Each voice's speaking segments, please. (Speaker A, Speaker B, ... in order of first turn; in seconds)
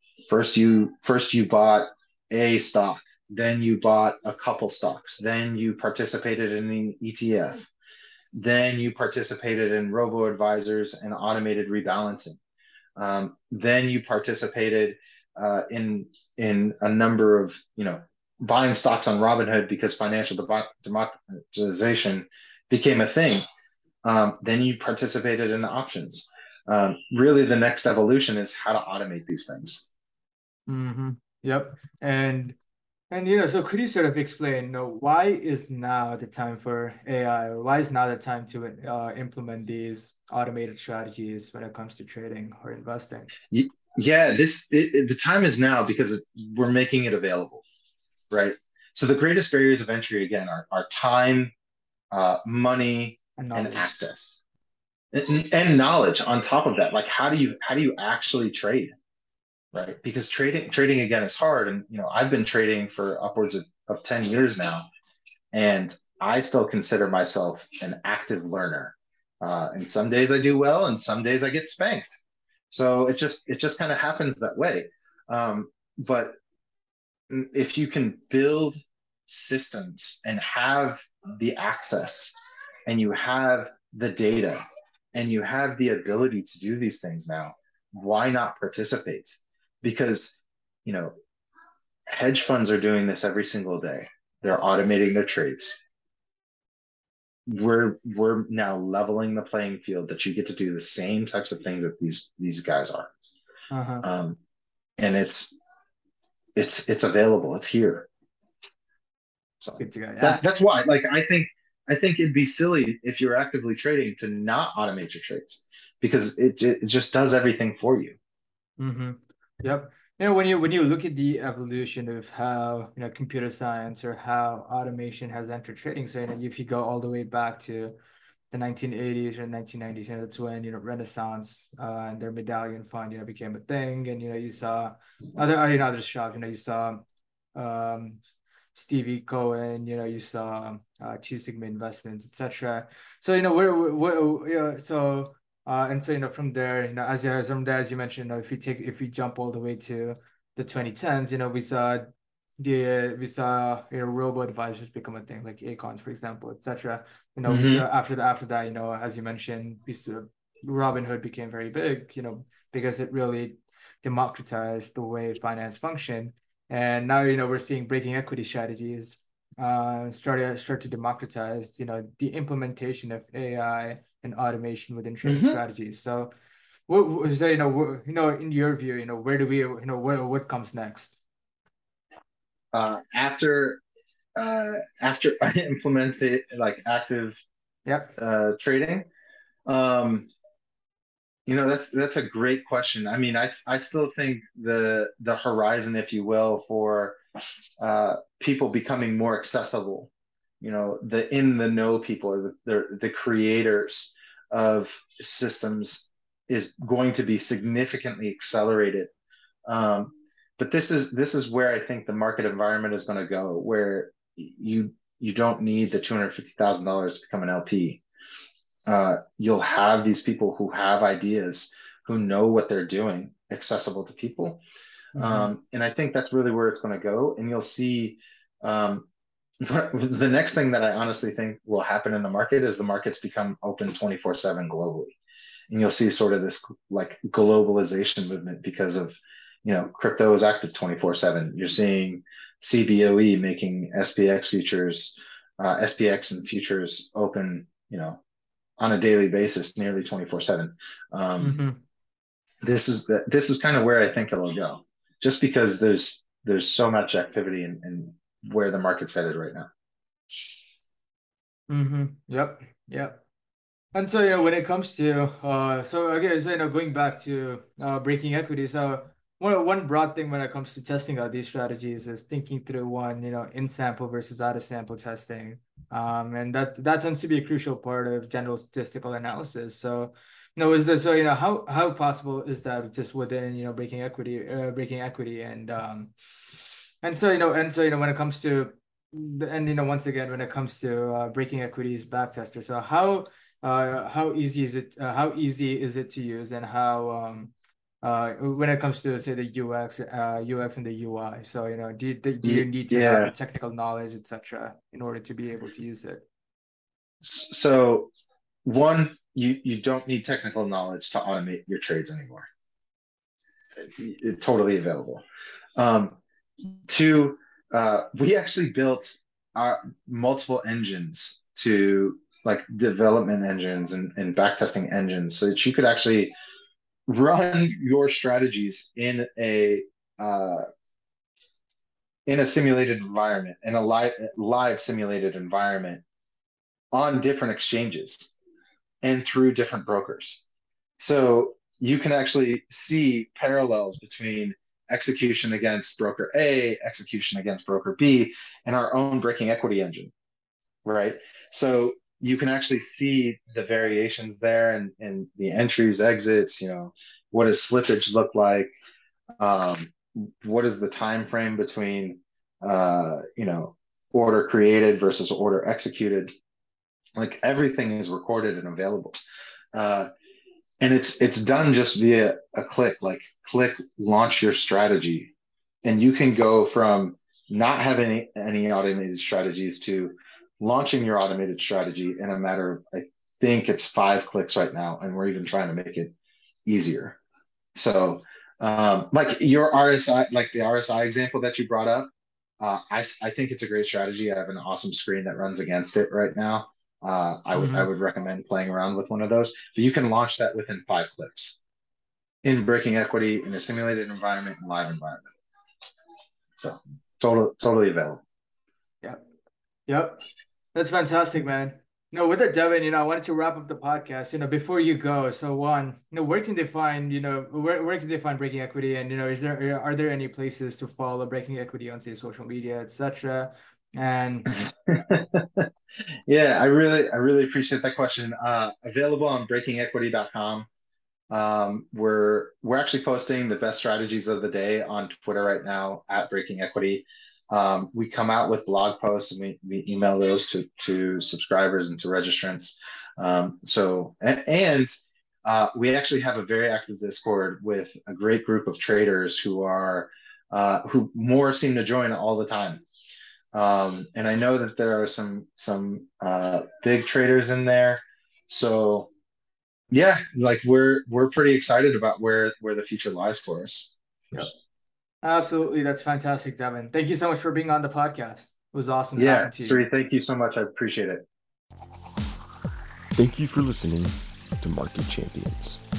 Speaker A: 0.3-7.7, 8.3-12.4, 13.0-23.4, 24.0-29.9, 43.5-47.6, 48.3-51.5, 52.1-54.4, 55.1-58.9, 59.7-64.9, 65.5-72.2, 72.7-76.4, 77.3-82.4, 82.9-84.6, 85.1-91.1, 92.1-95.8, 97.5-103.1, 104.0-104.4, 105.0-105.6, 106.6-108.1, 109.6-118.2, 157.5-157.8, 175.2-175.6, 182.7-183.8, 184.4-187.4, 188.2-189.1, 189.7-190.3, 191.5-197.2, 197.8-200.1, 200.6-209.1, 209.7-218.0, 218.9-224.6, 225.2-229.1, 229.6-235.2, 235.7-248.2, 248.8-251.6, 252.6-259.7, 302.4-303.3, 307.2-308.1, 308.6-312.5, 313.8-315.2, 315.8-316.2, 316.9-326.3, 327.1-330.6, 332.3-336.0, 336.9-338.3, 339.0-340.4, 341.0-350.1, 350.9-358.7, 359.4-366.3, 367.2-369.2, 369.7-370.1, 370.8-375.3, 375.8-386.1, 386.7-387.2, 387.8-401.6, 402.4-405.3, 406.6-408.2, 424.5-425.7, 426.3-430.7, 431.3-444.9, 445.4-452.8, 453.5-459.1, 459.9-464.0, 469.1-471.2
Speaker B: 30.7-32.6, 33.1-43.3, 53.4-54.0, 103.7-104.1, 109.8-110.4, 118.8-128.0, 128.5-137.0, 137.6-138.2, 138.7-176.3, 176.9-181.2, 187.9-188.2, 225.2-225.5, 251.4-251.8, 261.7-263.2, 263.9-286.1, 287.0-306.2, 397.5-397.9, 409.9-424.5, 465.2-469.8
Speaker C: 473.1-475.8